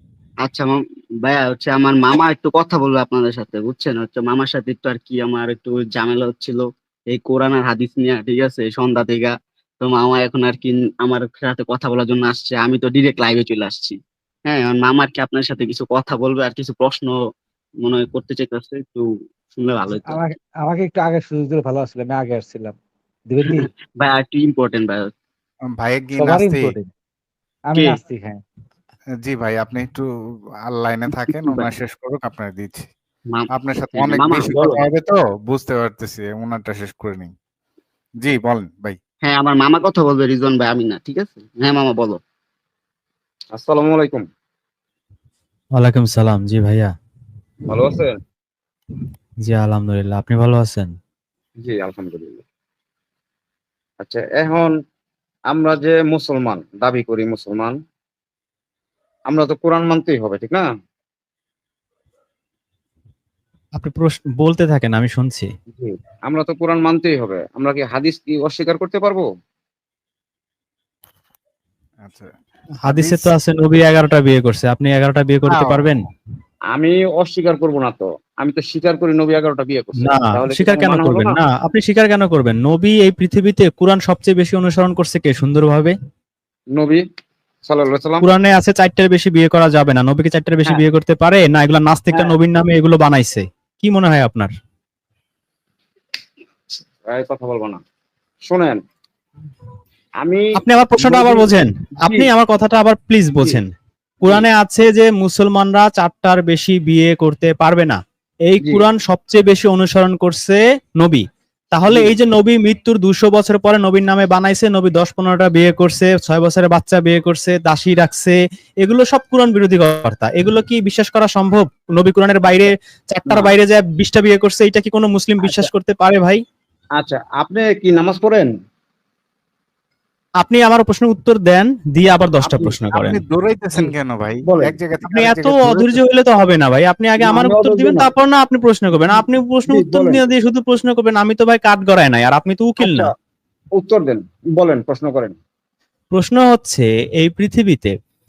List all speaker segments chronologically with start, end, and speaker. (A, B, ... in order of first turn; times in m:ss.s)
0:00.4-0:17.1 A
0:17.8-0:20.2 A
0:20.0-0:22.8 B
0:23.3-0:23.7 B
0:23.4-0:25.1 A
0:25.8-0:26.8 C
0:26.2-0:26.9 B
0:27.7-0:28.4 B
0:29.2-0:30.0 C
0:30.7-0:32.9 C
0:33.3-0:34.8 A
0:33.5-0:37.3 C
0:38.2-0:39.0 C
0:39.2-0:42.2 A
0:43.5-0:44.2 D
0:45.7-0:46.9 E
0:47.6-0:48.2 D
0:49.4-0:51.0 E
0:51.6-0:52.4 D
0:54.0-0:54.7 D
0:55.5-0:57.8 D
0:59.3-1:00.7 D
1:03.8-1:05.5 E
1:05.7-1:09.2 D
1:12.0-1:12.3 C
1:12.8-1:16.0 E
1:12.8-1:13.3 C
1:15.5-1:15.9 C
1:16.7-1:21.4 D
1:20.0-1:25.9 E
1:26.7-1:27.0 D
1:27.6-1:28.2 D
1:28.2-1:34.5 E
1:37.0-1:37.8 D
1:38.4-1:38.8 D
1:40.2-1:41.5 D
1:40.6-1:43.7 E
1:44.2-2:06.4 E
1:51.9-1:52.1 D
2:05.4-2:05.7 D
2:07.0-2:08.5 D
2:10.4-2:13.2 E
2:12.4-2:12.8 D
2:12.9-2:16.0 C
2:14.5-2:14.8 D
2:15.1-2:23.1 E
2:17.2-2:18.1 D
2:19.1-2:20.2 D
2:22.8-2:23.1 D
2:23.8-2:25.4 D
2:26.1-2:27.9 E